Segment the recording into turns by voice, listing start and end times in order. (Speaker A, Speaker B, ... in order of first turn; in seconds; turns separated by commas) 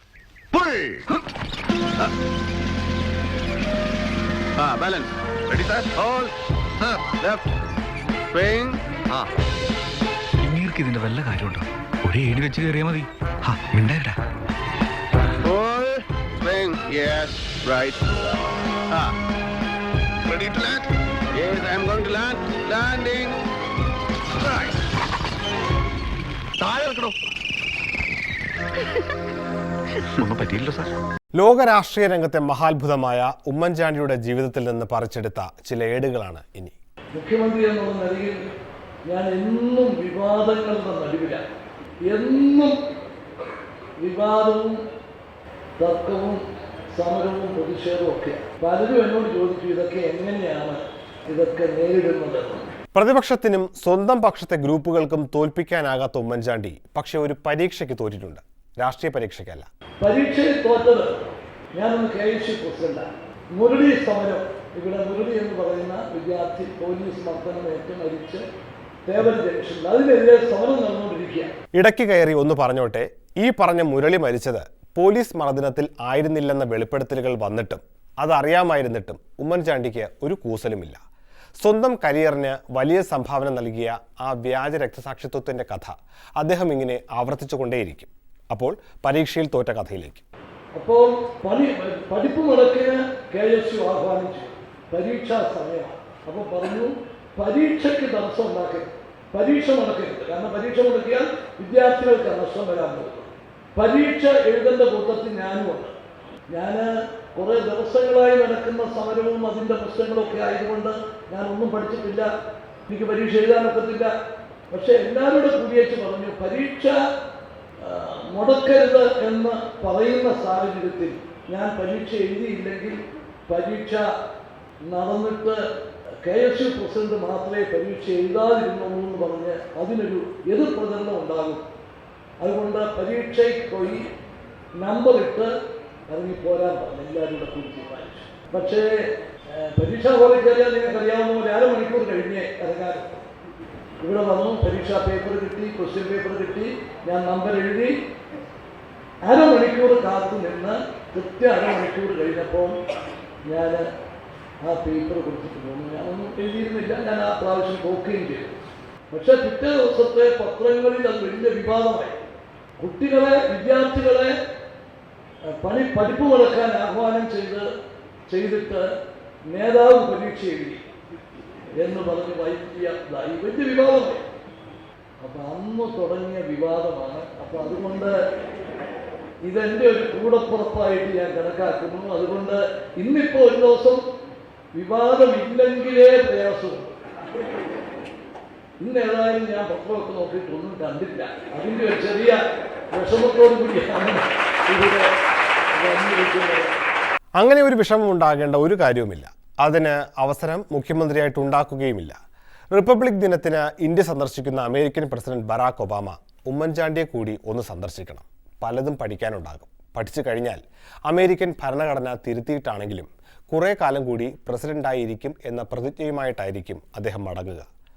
Speaker A: 0.5-1.1, Speaker A: 4.6-7.4, Speaker A: 8.3-9.2, Speaker B: 10.4-13.1, Speaker B: 13.7-14.1, Speaker A: 15.4-18.2, Speaker A: 20.2-23.3, Speaker A: 26.6-27.1, Speaker B: 30.2-30.8, Speaker C: 31.3-36.7, Speaker D: 37.1-38.4, Speaker D: 39.1-42.7, Speaker D: 44.0-44.8, Speaker D: 45.8-46.4, Speaker D: 46.9-52.7, Speaker C: 52.9-59.7, Speaker D: 60.0-68.4, Speaker D: 69.0-71.5, Speaker C: 71.7-81.0, Speaker C: 81.6-90.2, Speaker D: 90.7-106.0, Speaker D: 106.5-112.3, Speaker D: 112.9-114.1, Speaker D: 114.7-117.0, Speaker D: 117.8-124.0, Speaker D: 124.9-125.6, Speaker D: 126.2-131.7, Speaker D: 132.4-134.1, Speaker D: 134.8-135.5, Speaker D: 136.1-138.9, Speaker D: 139.5-143.2, Speaker D: 144.0-147.9, Speaker D: 149.2-152.8, Speaker D: 153.5-153.8, Speaker D: 154.6-158.6, Speaker D: 159.1-162.2, Speaker D: 162.8-164.3, Speaker D: 165.5-167.6, Speaker D: 168.3-168.8, Speaker D: 169.5-170.8, Speaker D: 171.8-174.3, Speaker D: 175.2-178.2, Speaker D: 179.4-184.0, Speaker D: 184.7-187.6, Speaker D: 188.8-192.4, Speaker D: 192.9-195.1, Speaker D: 195.7-196.7, Speaker C: 197.4-202.2, Speaker C: 202.7-217.7